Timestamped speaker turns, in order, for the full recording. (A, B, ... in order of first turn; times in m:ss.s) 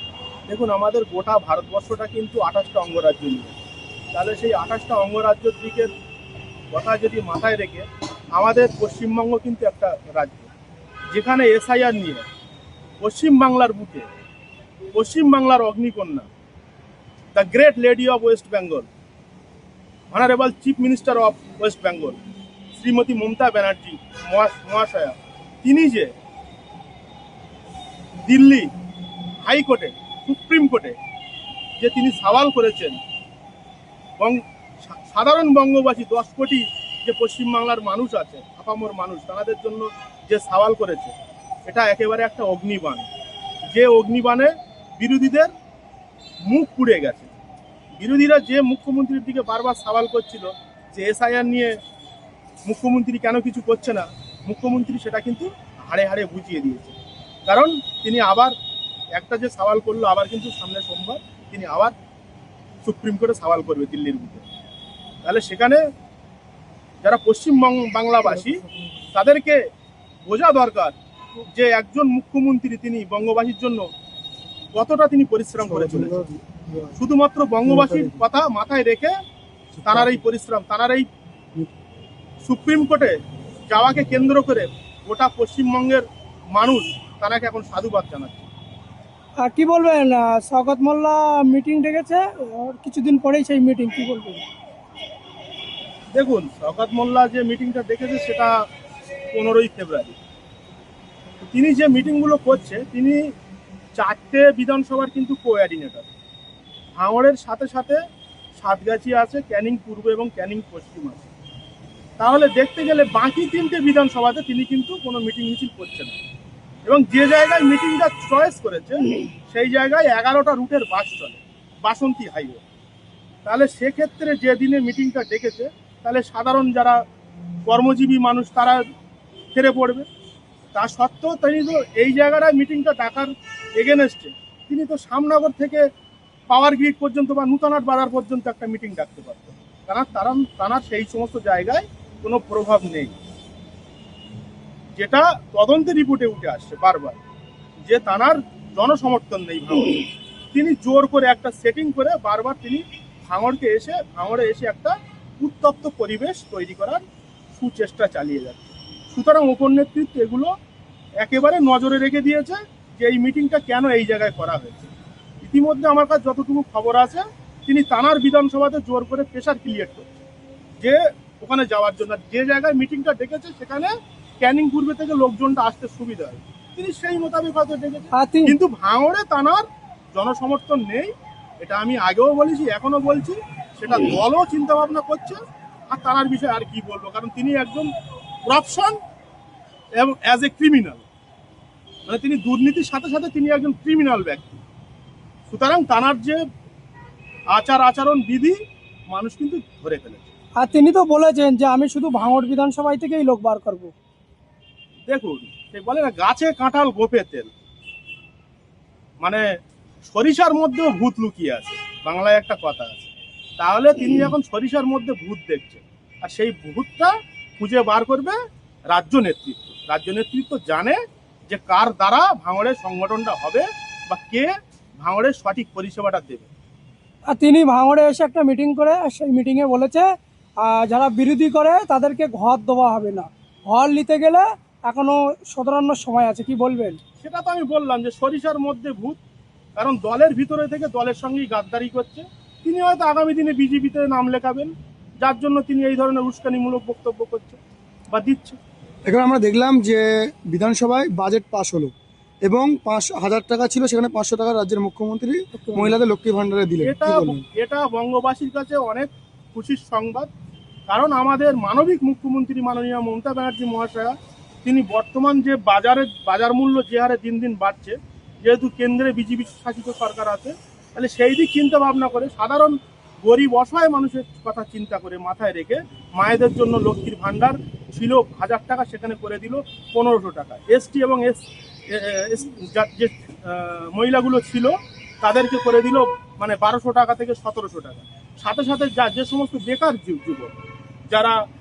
0:00.5-0:03.5 A
0:04.1-0:05.9 A
0:06.7-0:10.5 A
0:11.1-0:12.2 A
0:13.0-0:14.1 A
0:14.9-0:16.3 A
0:17.3-0:18.9 A
0:20.1-0:22.2 A
0:22.7-0:26.1 A
0:28.2-0:28.7 A
0:29.4-0:31.0 A
0:31.8-0:33.0 A
0:34.2-0:41.1 A
0:41.7-0:43.1 A
0:43.7-0:45.5 A
0:46.5-0:47.3 A
0:48.0-0:51.7 A
0:52.6-0:57.0 A
0:57.5-0:58.5 A
0:59.1-1:01.9 A
1:02.8-1:04.4 A
1:05.2-1:05.8 A
1:07.0-1:08.6 A
1:09.1-1:09.6 A
1:10.2-1:13.8 A
1:14.7-1:16.3 A
1:15.6-1:16.9 B
1:16.9-1:19.1 A
1:17.6-1:18.2 B
1:19.8-1:20.2 B
1:19.8-1:21.0 A
1:22.4-1:23.2 A
1:23.7-1:28.5 A
1:29.4-1:34.4 C
1:36.1-1:38.5 A
1:39.3-1:40.2 A
1:41.5-1:43.2 A
1:44.0-1:46.0 A
1:47.0-1:48.0 A
1:48.6-1:51.3 A
1:52.2-1:56.2 A
1:56.8-2:02.6 A
2:03.4-2:07.0 A
2:07.7-2:08.8 A
2:09.5-2:10.0 A
2:10.7-2:15.8 A
2:16.5-2:23.1 A
2:24.9-2:27.2 A
2:27.8-2:37.0 A
2:37.5-2:40.5 A
2:41.2-2:44.9 A
2:45.4-2:50.2 A
2:50.8-3:05.4 A
2:58.1-2:58.5 C
3:05.9-3:07.9 A
3:08.4-3:08.9 A
3:10.0-3:11.0 A
3:12.1-3:14.6 A
3:15.5-3:16.4 A
3:17.5-3:18.5 A
3:19.1-3:20.3 A
3:20.6-3:23.9 C
3:25.1-3:27.5 A
3:30.1-3:38.4 A
3:38.9-3:41.0 A
3:41.5-3:46.5 A
3:47.3-3:50.1 C
3:50.6-3:57.0 C
3:57.2-3:59.2 A
3:59.8-4:07.6 A
4:08.1-4:08.6 A
4:09.1-4:11.9 B
4:12.4-4:17.4 B
4:15.5-4:15.9 A
4:16.8-4:20.3 A
4:20.9-4:24.1 A
4:24.6-4:50.5 A
4:51.1-4:51.4 A